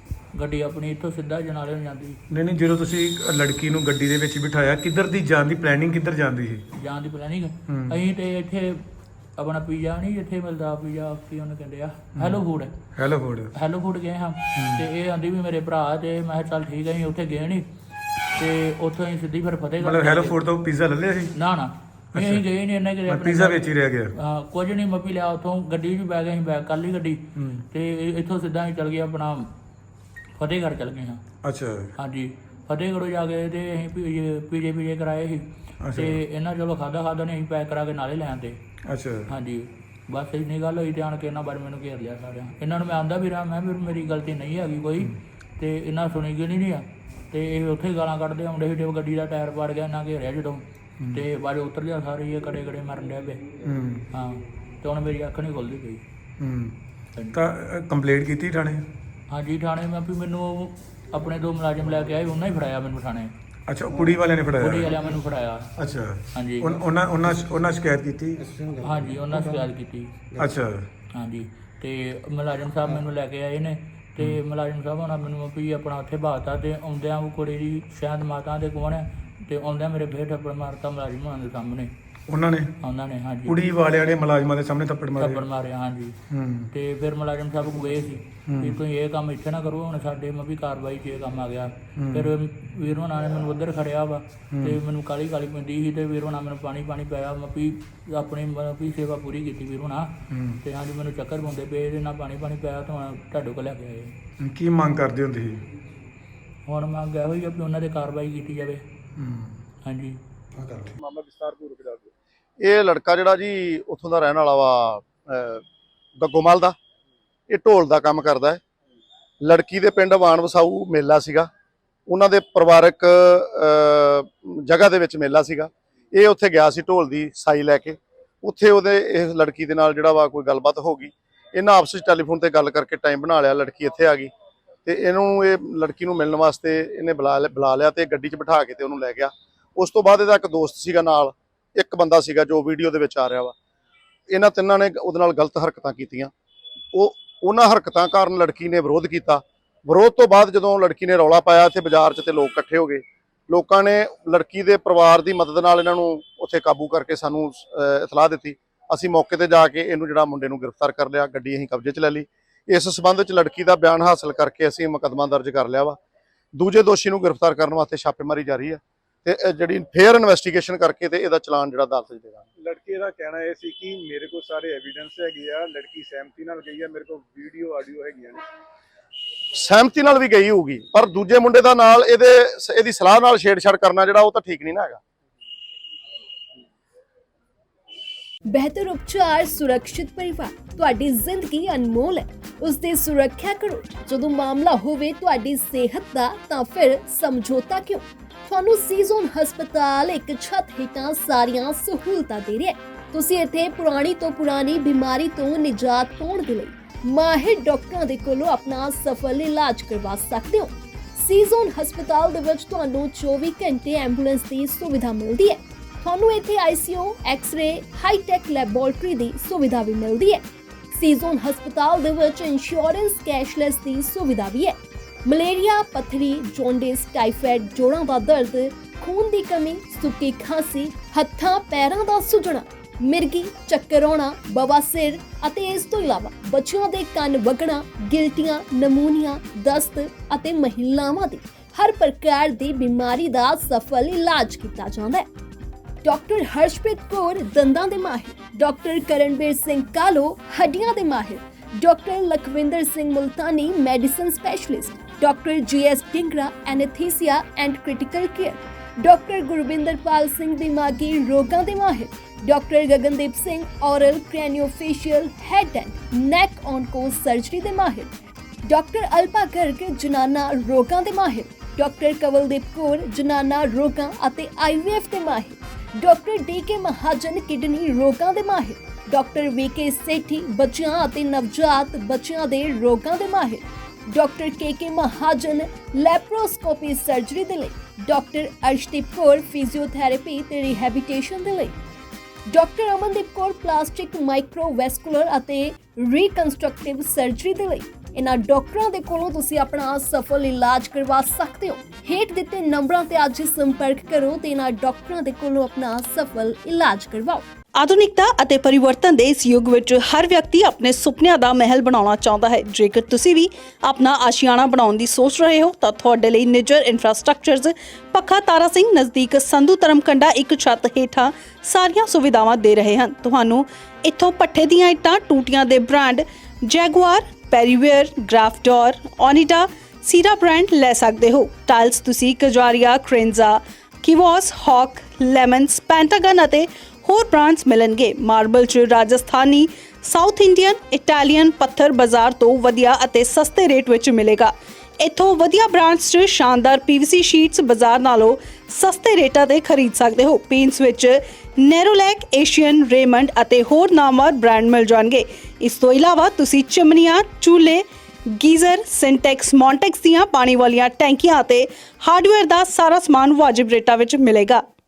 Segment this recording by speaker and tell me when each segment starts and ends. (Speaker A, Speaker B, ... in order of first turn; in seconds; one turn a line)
Speaker A: 0.3-2.2
Speaker B: 2.3-6.7
Speaker A: 6.8-8.8
Speaker B: 7.7-8.0
Speaker A: 9.4-12.7
Speaker B: 12.2-12.4
Speaker B: 12.9-13.5
Speaker A: 13.5-17.7
Speaker B: 14.5-14.8
Speaker A: 18.4-20.4
Speaker B: 19.8-21.3
Speaker A: 21.3-29.5
Speaker B: 22.1-22.4
Speaker B: 23.1-24.1
Speaker B: 27.3-27.7
Speaker A: 30.4-31.2
Speaker B: 31.4-31.9
Speaker A: 32.0-38.6
Speaker B: 35.8-36.2
Speaker B: 38.9-39.3
Speaker A: 39.3-53.4
Speaker B: 51.0-51.2
Speaker B: 53.6-54.1
Speaker A: 54.1-56.0
Speaker B: 56.4-56.8
Speaker B: 57.3-58.9
Speaker A: 59.3-63.3
Speaker B: 63.7-65.1
Speaker A: 64.6-65.7
Speaker B: 65.8-68.5
Speaker A: 66.3-66.8
Speaker A: 68.8-70.1
Speaker B: 70.4-70.9
Speaker A: 71.1-81.9
Speaker B: 82.3-82.8
Speaker A: 82.8-83.5
Speaker B: 83.4-85.4
Speaker A: 85.2-86.2
Speaker B: 86.3-86.7
Speaker A: 86.7-104.1
Speaker B: 88.5-88.8
Speaker B: 92.0-92.3
Speaker B: 94.5-94.8
Speaker B: 100.3-100.6
Speaker B: 104.4-105.7
Speaker A: 106.7-108.8
Speaker B: 109.2-109.6
Speaker A: 109.8-110.2
Speaker B: 110.6-111.0
Speaker C: 111.0-112.1
Speaker D: 112.6-115.6
Speaker D: 116.2-116.8
Speaker D: 117.5-118.6
Speaker D: 119.4-121.5
Speaker D: 122.1-134.3
Speaker D: 134.8-143.6
Speaker D: 144.3-146.3
Speaker D: 146.9-166.0
Speaker D: 166.5-172.5
Speaker C: 172.6-178.4
Speaker D: 179.6-185.0
Speaker E: 188.5-245.2
Speaker E: 246.0-268.1
Speaker E: 268.7-291.8
Speaker E: 292.5-307.4
Speaker F: 307.8-364.6